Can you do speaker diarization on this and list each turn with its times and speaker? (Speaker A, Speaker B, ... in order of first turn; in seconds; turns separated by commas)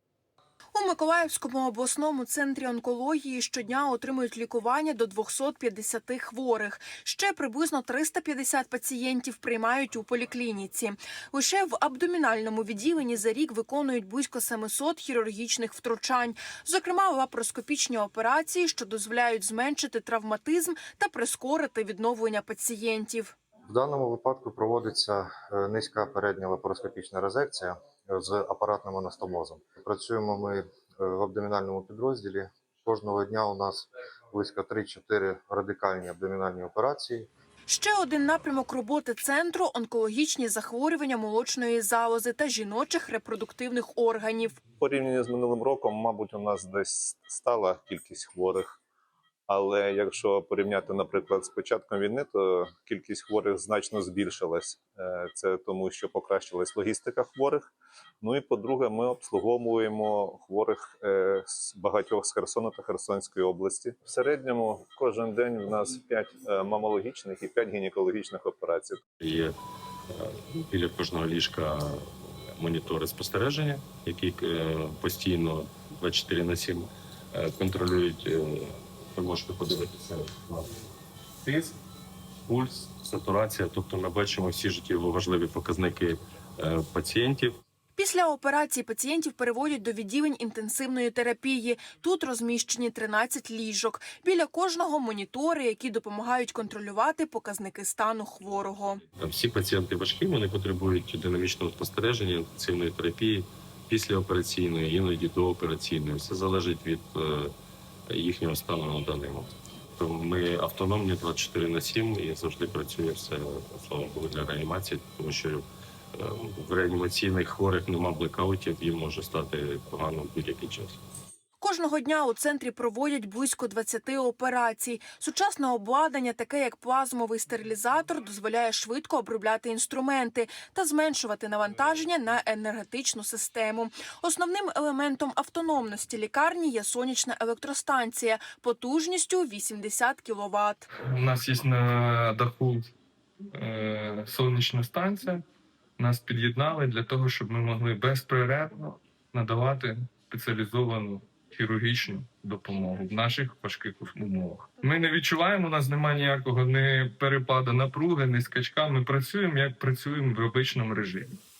Speaker A: 0.7-23.3, Speaker B: 23.7-37.3, Speaker A: 37.7-44.6, Speaker C: 44.8-48.7, Speaker C: 49.5-57.7, Speaker C: 58.2-69.0, Speaker D: 69.2-69.5, Speaker D: 70.1-80.7, Speaker D: 81.4-81.8, Speaker D: 82.5-87.6, Speaker A: 88.0-99.0, Speaker D: 99.2-107.5, Speaker D: 108.1-115.6, Speaker D: 116.1-121.0, Speaker A: 121.6-140.9, Speaker E: 141.0-142.8, Speaker E: 143.5-145.4, Speaker E: 146.0-161.3